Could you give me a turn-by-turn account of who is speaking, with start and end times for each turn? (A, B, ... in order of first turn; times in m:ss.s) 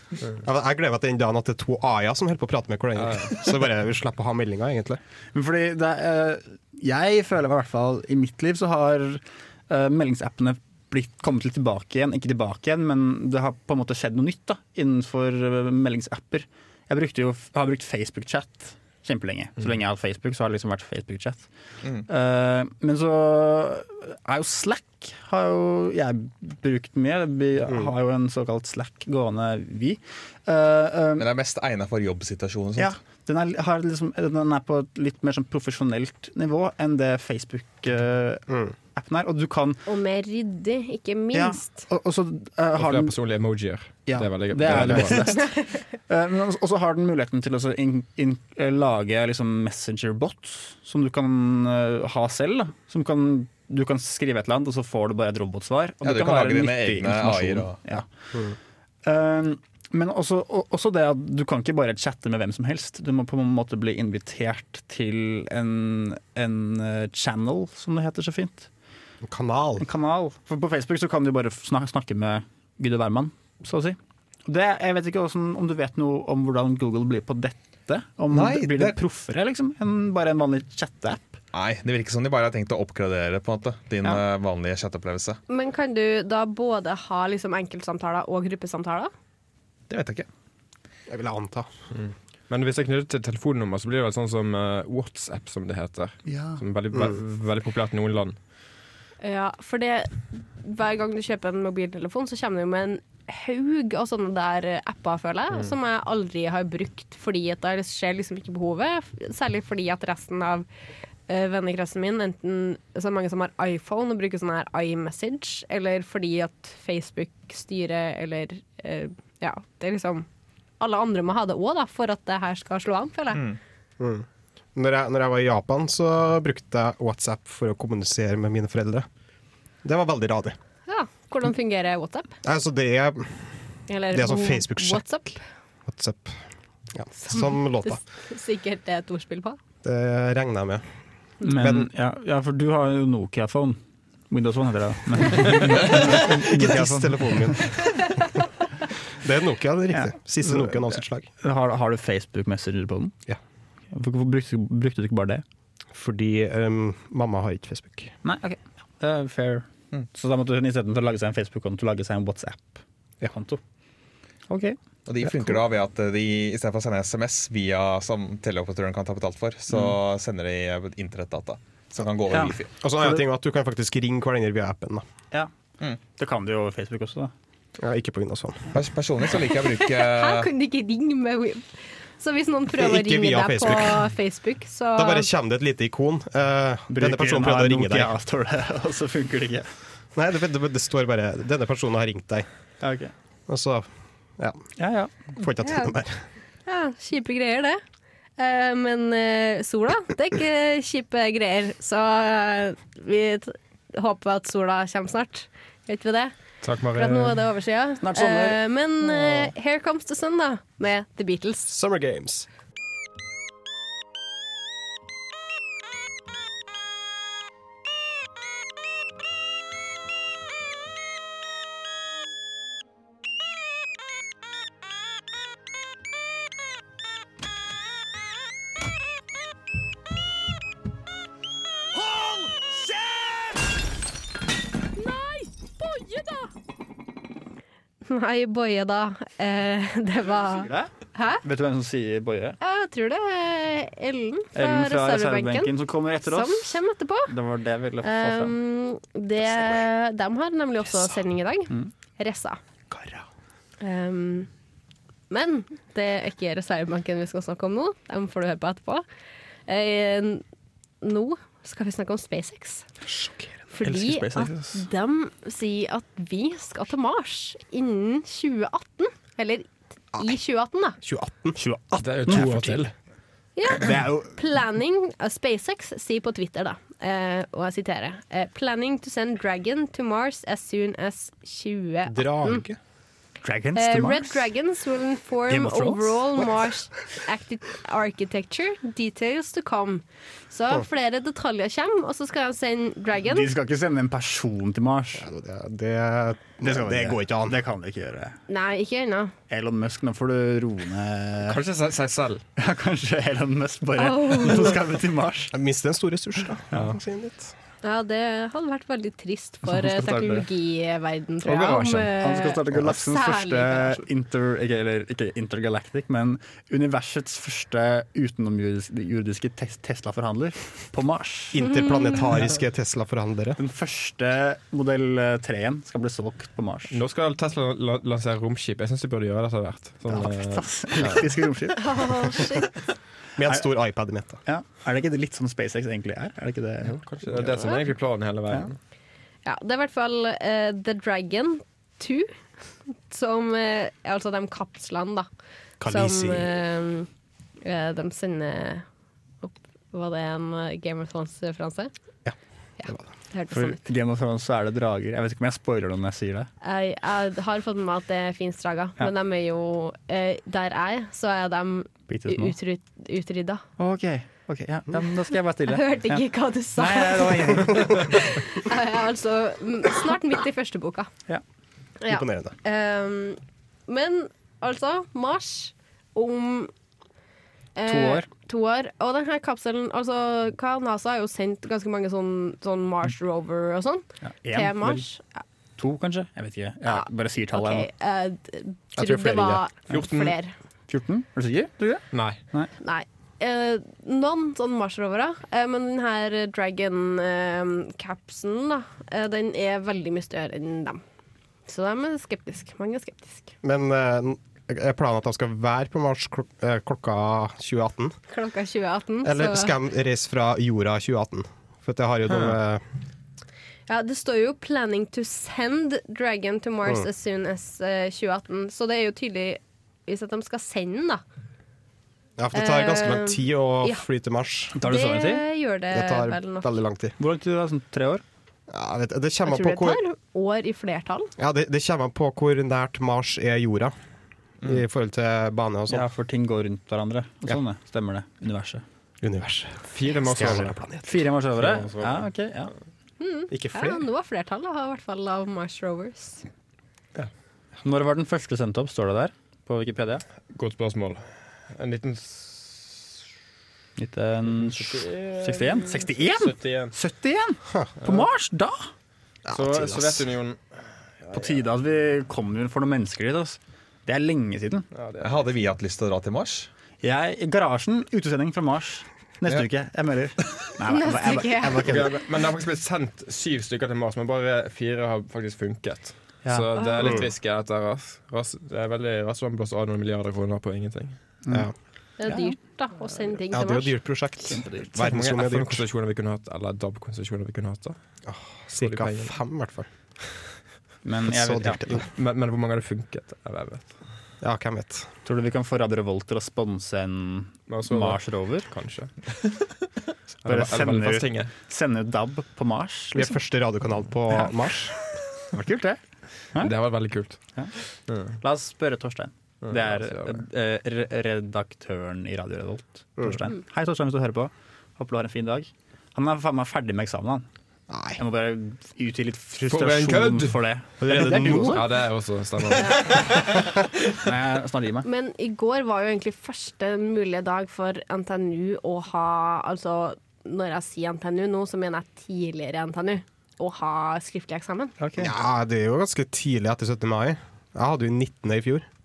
0:00.4-0:05.0 A
0:05.3-0:21.5 B
0:22.1-0:31.3 B
0:31.2-0:32.9 C
0:32.8-0:39.8 B
0:39.8-0:41.9 D
0:41.3-0:43.1 B
0:42.8-0:45.4 E
0:44.1-0:45.6 B
0:46.1-0:58.1 B
0:56.0-0:57.8 C
0:59.0-1:08.7 B
1:09.2-1:09.8 A
1:09.8-1:21.4 B
1:18.3-1:19.0 C
1:21.5-1:25.4 C
1:25.5-1:29.1 D
1:29.9-1:30.3 C
1:31.1-1:31.7 A
1:31.9-1:38.4 E
1:36.3-1:36.6 B
1:39.2-1:50.7 D
1:51.3-2:00.3 D
2:00.8-2:03.4 D
2:03.3-2:03.6 C
2:04.0-2:09.0 A
2:09.8-2:10.6 A
2:10.9-2:12.3 D
2:12.4-2:13.6 A
2:13.9-2:15.4 D
2:14.1-2:15.0 A
2:15.8-2:16.4 A
2:16.9-2:18.0 A
2:17.2-2:19.6 D
2:19.8-2:20.8 A
2:21.4-2:27.7 B
2:21.5-2:21.8 A
2:25.9-2:28.0 A
2:29.2-2:31.3 A
2:29.9-2:33.1 B
2:33.9-2:35.4 B
2:35.9-2:38.1 A
2:38.2-2:43.6 B
2:44.5-2:45.6 B
2:45.0-2:52.7 C
2:52.3-2:53.2 B
2:52.6-2:55.0 A
2:56.2-2:57.3 B
2:57.8-2:58.7 A
2:58.7-3:00.5 C
2:59.7-3:05.3 D
3:02.7-3:04.0 A
3:05.0-3:08.1 A
3:06.9-3:09.7 B
3:10.1-3:12.5 A
3:12.8-3:13.1 B
3:13.5-3:13.9 A
3:14.8-3:15.1 B
3:15.4-3:16.2 A
3:15.6-3:15.9 D
3:16.6-3:17.8 D
3:18.4-3:26.3 D
3:26.6-3:27.4 E
3:26.9-3:31.7 D
3:28.0-3:29.4 B
3:31.7-3:32.5 A
3:55.0-3:56.5 D
3:58.0-4:01.4 D
4:00.5-4:02.6 B
4:02.6-4:07.3 D
4:04.5-4:08.6 B
4:08.0-4:12.6 D
4:13.8-4:14.5 D
4:15.3-4:19.0 D
4:19.7-4:20.4 D
4:21.0-4:22.8 D
4:23.0-4:23.6 A
4:23.7-4:31.0 D
4:23.8-4:24.8 B
4:31.0-4:31.6 A
4:31.6-4:32.9 B
4:32.0-4:32.9 E
4:33.6-4:42.6 D
4:33.8-4:34.3 B
4:42.1-4:42.8 A
4:43.4-4:44.5 B
4:43.7-4:53.5 D
4:45.5-4:46.4 B
4:53.2-4:55.3 B
4:55.2-4:57.5 A
4:56.6-4:58.4 B
4:58.5-4:59.3 D
4:59.5-5:01.6 B
5:01.4-5:02.4 E
5:02.6-5:05.5 B
5:04.0-5:04.8 D
5:05.5-5:07.5 A
5:07.8-5:14.0 D
5:09.7-5:10.4 B
5:11.4-5:21.6 B
5:21.5-5:23.6 A
5:21.6-5:22.3 D
5:23.6-5:27.0 B
5:26.9-5:31.2 E
5:30.1-5:32.3 B
5:31.8-5:32.7 D
5:33.4-5:34.4 A
5:34.4-5:37.0 B
5:37.0-5:38.8 E
5:39.4-5:42.3 D
5:43.1-5:45.3 D
5:45.8-5:46.6 A
5:45.8-5:47.1 D
5:47.6-5:48.8 D
5:49.4-5:51.9 D
5:52.2-5:53.1 A
5:52.8-5:53.8 D
5:53.5-5:56.5 B
5:56.6-6:03.6 D
6:02.1-6:02.5 B
6:03.8-6:06.2 B
6:05.7-6:11.1 D
6:06.8-6:08.2 B
6:12.0-6:16.7 D
6:12.1-6:12.5 A
6:17.7-6:25.4 D
6:17.9-6:18.3 B
6:24.2-6:25.0 B
6:25.8-6:27.9 B
6:26.9-6:30.5 D
6:29.0-6:29.6 A
6:29.9-6:30.4 E
6:30.9-6:32.7 B
6:32.1-6:32.4 E
6:32.8-6:41.0 D
6:41.6-6:43.6 D
6:43.6-6:48.2 A
6:48.3-6:49.7 D
6:49.2-6:52.8 A
6:53.9-7:01.2 D
7:02.4-7:04.7 A
7:02.5-7:04.0 D
7:04.8-7:05.4 B
7:04.8-7:06.7 D
7:05.9-7:07.1 A
7:07.2-7:08.2 B
7:08.7-7:10.0 A
7:09.5-7:11.3 D
7:11.4-7:13.9 A
7:14.6-7:16.1 A
7:15.9-7:18.8 B
7:19.2-7:21.0 A
7:19.9-7:20.9 E
7:21.0-7:22.7 B
7:21.5-7:22.3 E
7:23.2-7:26.4 D
7:23.5-7:24.0 A
7:27.8-7:30.2 B
7:30.5-7:33.0 E
7:34.0-7:38.9 B
7:34.6-7:36.9 E
7:38.0-7:38.3 E
7:39.4-7:40.2 A
7:39.5-7:40.6 E
7:41.2-7:41.6 E
7:41.3-7:44.9 B
7:44.9-7:45.4 E
7:45.2-7:46.7 C
7:47.0-7:52.1 B
7:50.9-7:51.9 D
7:51.8-8:01.2 E
7:56.8-7:57.1 D
7:57.0-7:57.2 A
8:01.4-8:01.7 B
8:02.2-8:04.0 D
8:03.5-8:05.8 A
8:04.5-8:04.9 B
8:05.0-8:08.0 E
8:08.2-8:09.9 A
8:08.8-8:09.4 E
8:11.0-8:12.0 B
8:11.3-8:12.1 A
8:12.1-8:13.9 E
8:14.4-8:15.1 A
8:15.2-8:18.7 B
8:17.7-8:19.7 E
8:20.4-8:21.5 E
8:20.4-8:23.4 B
8:23.1-8:25.0 A
8:25.5-8:26.0 B
8:26.6-8:27.4 E
8:28.1-8:28.4 E
8:28.4-8:37.5 B
8:29.6-8:30.4 E
8:37.9-8:38.2 A
8:38.2-8:41.8 B
8:39.6-8:43.4 E
8:41.0-8:41.8 A
8:42.8-8:43.2 D
8:44.2-8:45.1 B
8:45.0-8:55.0 D
8:55.0-8:55.3 B
8:55.2-8:58.8 A